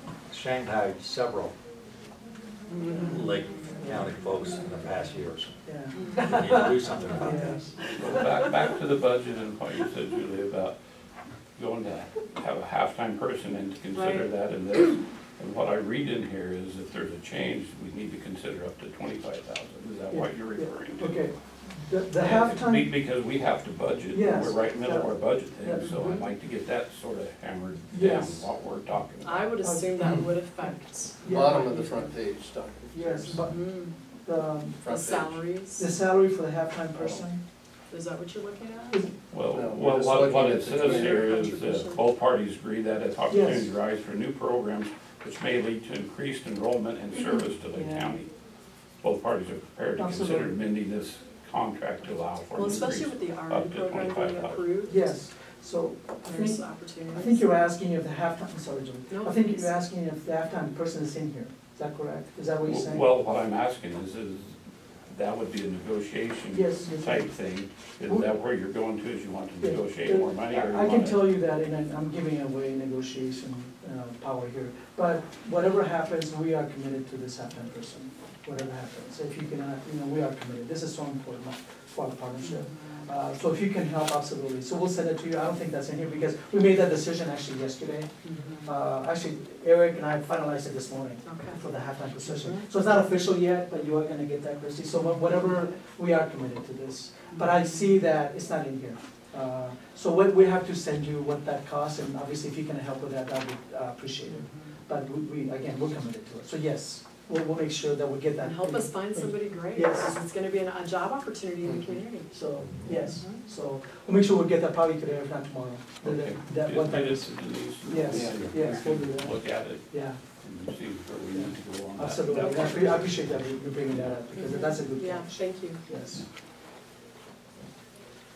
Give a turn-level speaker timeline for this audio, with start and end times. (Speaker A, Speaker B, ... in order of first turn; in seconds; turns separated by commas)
Speaker A: 0.3-1.5, Speaker A: 2.9-5.5, Speaker B: 5.6-6.0, Speaker C: 6.0-6.3, Speaker A: 6.2-7.6, Speaker B: 7.2-8.3, Speaker D: 7.9-10.7, Speaker D: 11.6-21.2, Speaker C: 13.9-14.3, Speaker B: 20.1-22.9, Speaker D: 22.1-29.6, Speaker B: 24.1-26.0, Speaker C: 25.8-26.3, Speaker B: 27.9-28.5, Speaker C: 29.2-31.1, Speaker B: 29.6-32.1, Speaker E: 31.2-33.4, Speaker B: 32.9-33.7, Speaker C: 33.3-33.9, Speaker B: 34.2-34.8, Speaker E: 34.8-35.4, Speaker C: 34.8-35.9, Speaker B: 35.8-37.4, Speaker E: 36.9-37.2, Speaker C: 37.9-39.0, Speaker D: 39.3-48.3, Speaker E: 39.5-41.4, Speaker C: 40.8-42.0, Speaker B: 43.3-43.7, Speaker B: 47.7-48.2, Speaker D: 49.0-54.6, Speaker B: 50.0-50.6, Speaker C: 52.5-55.1, Speaker B: 54.9-63.1, Speaker C: 56.2-57.4, Speaker C: 59.1-59.7, Speaker D: 62.6-64.5, Speaker D: 65.1-71.3, Speaker B: 66.5-67.3, Speaker B: 69.6-88.1, Speaker C: 82.4-83.1, Speaker C: 88.2-88.7, Speaker B: 88.6-110.2, Speaker C: 91.2-91.6, Speaker C: 92.2-92.6, Speaker C: 97.3-97.6, Speaker C: 104.3-104.7, Speaker C: 108.4-112.3, Speaker E: 111.6-112.0, Speaker B: 112.3-117.3, Speaker C: 113.0-113.4, Speaker D: 116.0-123.3, Speaker B: 117.8-120.2, Speaker E: 118.0-118.5, Speaker B: 121.3-126.2, Speaker C: 124.3-125.8